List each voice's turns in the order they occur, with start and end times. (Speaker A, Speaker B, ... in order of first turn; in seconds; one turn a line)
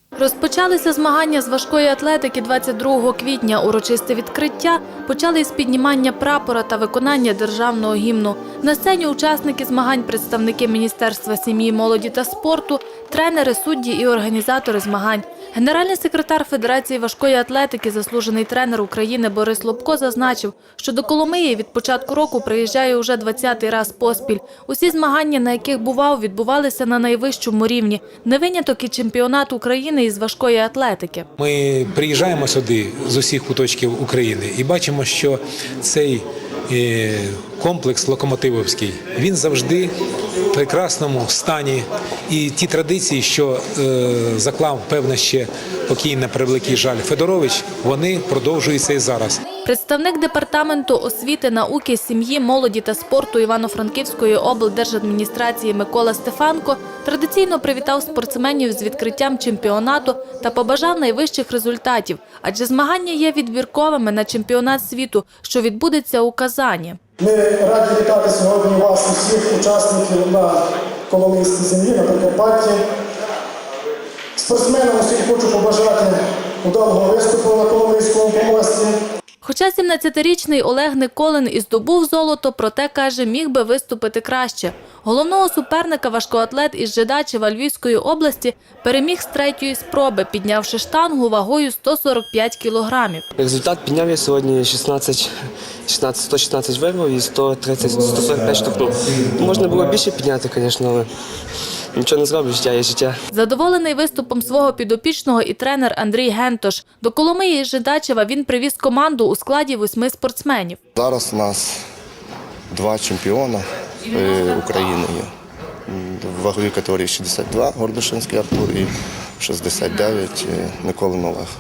Speaker A: 0.2-31.3
Speaker B: 31.4-39.9
Speaker B: 40.5-49.4
Speaker A: 49.6-67.0
Speaker C: 67.2-72.8
Speaker C: 74.3-79.0
Speaker A: 79.4-93.2
Speaker D: 93.4-95.3
Speaker D: 95.9-101.1
Speaker D: 101.9-103.2
Speaker A: 103.3-110.8
Speaker E: 111.0-111.8
Speaker E: 112.7-115.3
Speaker E: 115.9-121.5